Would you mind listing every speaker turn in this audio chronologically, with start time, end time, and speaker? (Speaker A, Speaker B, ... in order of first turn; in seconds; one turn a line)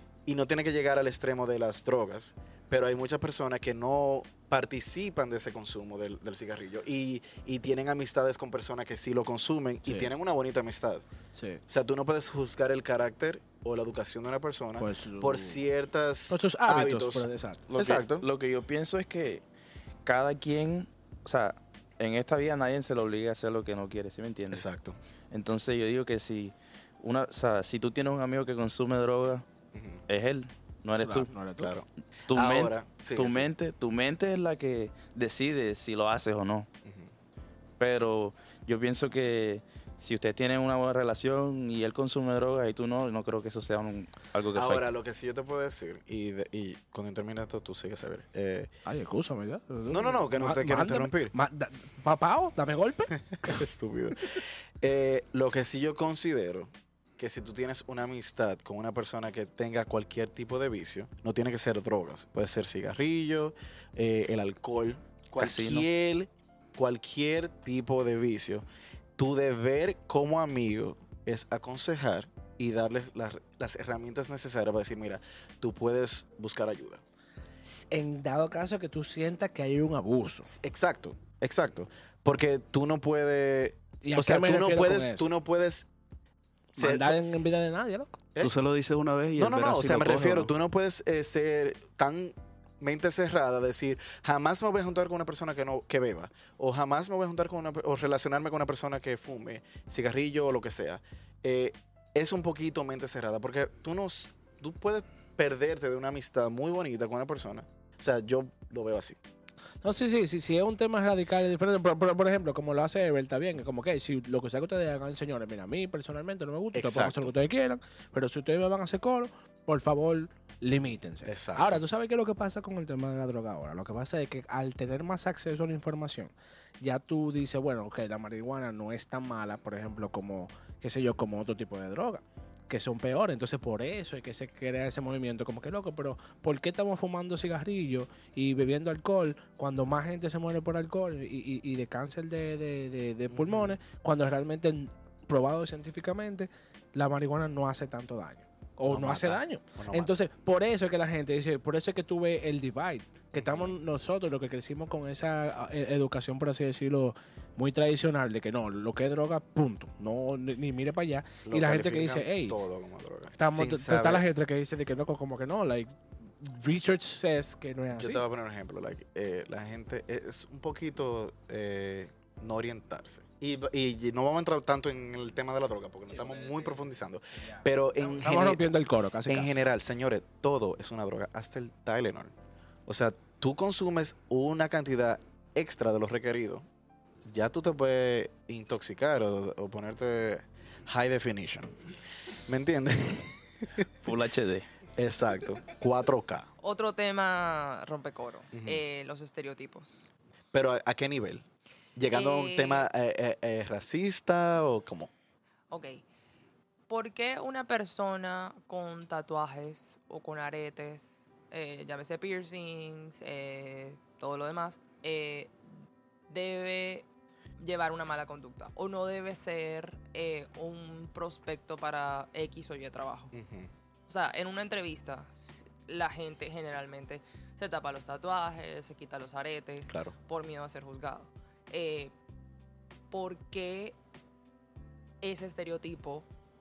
Speaker A: 0.2-11.0
Speaker B: 9.8-10.1
Speaker B: 11.3-11.6
Speaker A: 11.7-18.2
Speaker B: 14.8-15.6
Speaker B: 16.3-17.6
Speaker C: 17.7-19.4
Speaker C: 20.0-24.6
Speaker A: 24.5-25.0
Speaker C: 25.3-29.4
Speaker A: 29.7-30.0
Speaker C: 30.1-31.3
Speaker B: 31.0-31.7
Speaker A: 31.6-33.5
Speaker C: 32.3-36.7
Speaker C: 37.8-44.8
Speaker A: 44.5-48.7
Speaker B: 48.9-53.5
Speaker A: 49.9-51.3
Speaker A: 53.4-68.6
Speaker C: 65.4-65.8
Speaker A: 69.2-77.0
Speaker B: 77.6-80.5
Speaker A: 80.5-85.9
Speaker B: 84.0-85.3
Speaker B: 86.7-88.2
Speaker A: 86.8-87.2
Speaker D: 88.4-90.5
Speaker A: 89.4-109.2
Speaker B: 109.8-162.6
Speaker A: 116.7-117.3
Speaker A: 121.2-121.8
Speaker A: 143.3-143.8
Speaker A: 148.9-150.1
Speaker A: 153.3-153.8
Speaker A: 161.4-164.2
Speaker B: 163.4-168.2
Speaker A: 167.9-178.6
Speaker B: 176.2-176.7
Speaker B: 177.6-179.6
Speaker A: 179.3-182.3
Speaker A: 182.9-186.6
Speaker A: 187.2-191.7
Speaker A: 192.5-193.9
Speaker C: 194.0-194.7
Speaker A: 195.0-196.5
Speaker E: 196.6-200.1
Speaker A: 198.5-198.8
Speaker A: 200.5-201.4
Speaker A: 201.9-205.1
Speaker E: 202.1-202.9
Speaker E: 205.7-206.0
Speaker E: 206.9-215.5
Speaker E: 216.3-217.0
Speaker E: 217.6-223.3
Speaker A: 223.3-223.7
Speaker E: 224.1-232.1
Speaker A: 229.9-230.1
Speaker E: 233.1-233.9
Speaker E: 235.2-236.2